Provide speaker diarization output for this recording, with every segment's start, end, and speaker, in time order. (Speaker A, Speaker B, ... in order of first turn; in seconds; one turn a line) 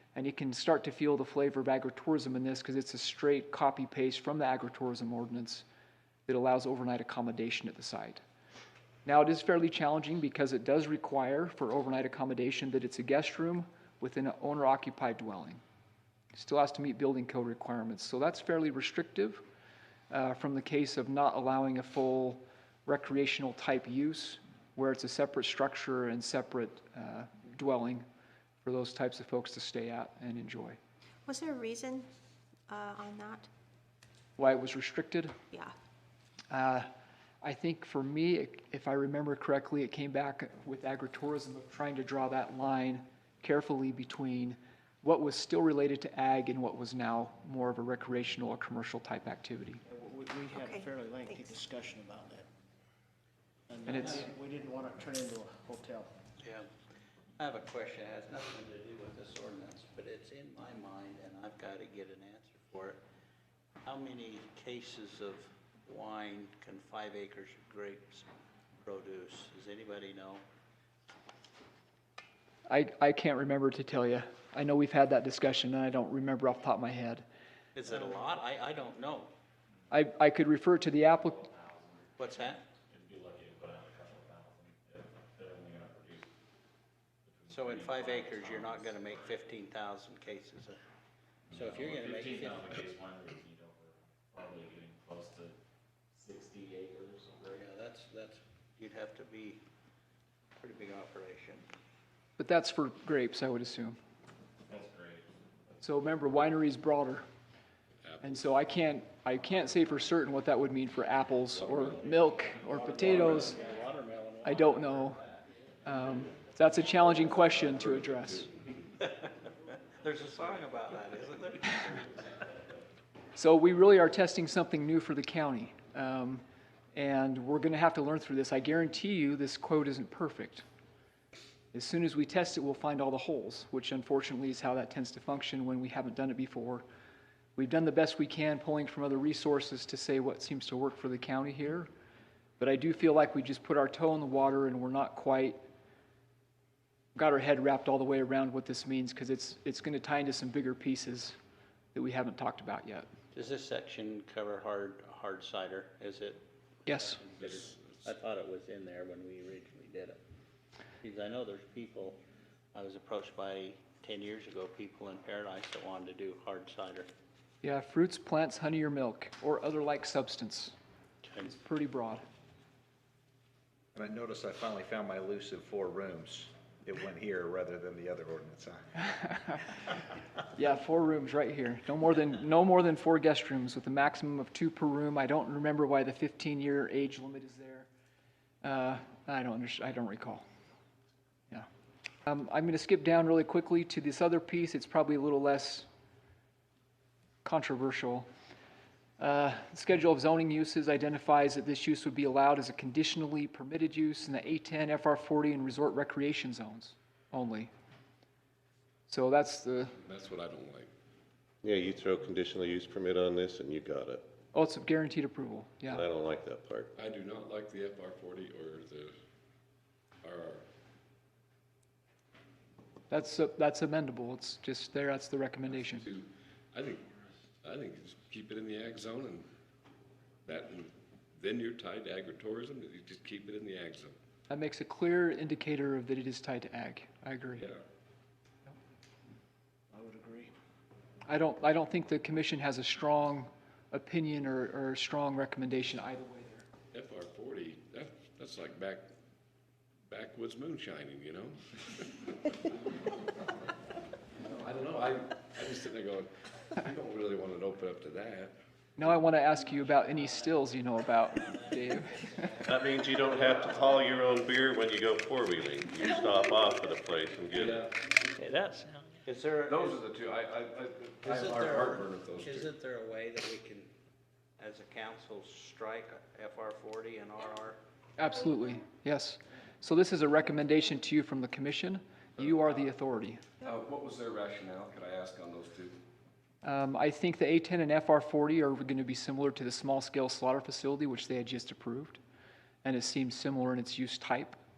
Speaker A: 0.1-5.6
Speaker A: 6.3-8.2
Speaker A: 9.0-15.6
Speaker A: 16.3-19.4
Speaker A: 20.1-28.1
Speaker A: 28.6-30.8
Speaker B: 31.2-32.1
Speaker B: 32.7-33.5
Speaker A: 34.4-35.3
Speaker A: 36.5-36.9
Speaker A: 37.4-49.8
Speaker C: 49.9-52.5
Speaker B: 50.5-51.6
Speaker C: 53.7-56.1
Speaker A: 53.9-54.3
Speaker D: 53.9-54.2
Speaker D: 56.4-56.7
Speaker D: 57.4-63.0
Speaker D: 63.9-68.3
Speaker D: 68.8-70.4
Speaker A: 72.7-77.2
Speaker D: 77.7-79.3
Speaker A: 79.9-81.5
Speaker E: 81.2-86.3
Speaker D: 82.2-82.6
Speaker E: 87.2-89.4
Speaker D: 87.5-90.8
Speaker E: 91.5-95.5
Speaker D: 91.5-92.7
Speaker E: 96.1-97.5
Speaker D: 97.4-99.6
Speaker D: 100.6-101.6
Speaker A: 102.4-104.0
Speaker E: 104.7-105.8
Speaker A: 105.8-107.2
Speaker F: 108.0-108.5
Speaker A: 108.2-113.6
Speaker F: 111.5-112.0
Speaker D: 112.7-115.1
Speaker F: 113.2-113.5
Speaker A: 114.4-115.2
Speaker A: 115.8-118.5
Speaker F: 117.7-118.5
Speaker D: 120.0-122.2
Speaker A: 123.3-126.4
Speaker A: 126.9-130.6
Speaker A: 131.7-136.8
Speaker A: 137.6-141.9
Speaker A: 142.6-145.6
Speaker A: 147.2-151.3
Speaker A: 151.9-153.1
Speaker D: 153.3-160.2
Speaker A: 156.9-157.2
Speaker F: 157.4-158.0
Speaker D: 161.0-162.2
Speaker D: 162.7-167.1
Speaker A: 167.6-170.7
Speaker D: 171.2-171.5
Speaker A: 171.4-172.2
Speaker G: 173.9-178.8
Speaker A: 179.2-179.7
Speaker A: 180.5-187.9
Speaker A: 188.6-190.4
Speaker A: 192.2-195.9
Speaker A: 197.4-198.3
Speaker A: 199.2-207.7
Speaker A: 209.1-210.0
Speaker F: 210.0-210.9
Speaker H: 211.6-214.2
Speaker A: 214.5-216.0
Speaker H: 215.9-216.9
Speaker F: 217.0-219.1
Speaker F: 220.2-220.6
Speaker A: 223.1-226.1
Speaker F: 225.8-227.1
Speaker F: 227.6-229.4
Speaker F: 230.4-234.2
Speaker A: 234.5-237.7
Speaker C: 239.9-240.5
Speaker A: 241.2-246.7
Speaker F: 246.9-249.1
Speaker F: 250.1-252.5
Speaker F: 254.4-258.5
Speaker A: 259.0-262.5
Speaker D: 259.5-264.2
Speaker H: 262.6-267.9
Speaker F: 267.5-267.9
Speaker D: 268.4-270.0
Speaker F: 269.7-272.7
Speaker D: 271.2-273.9
Speaker D: 274.6-277.8
Speaker A: 278.2-283.4
Speaker F: 282.4-282.6
Speaker F: 283.6-286.0
Speaker A: 286.6-292.2
Speaker A: 292.8-294.6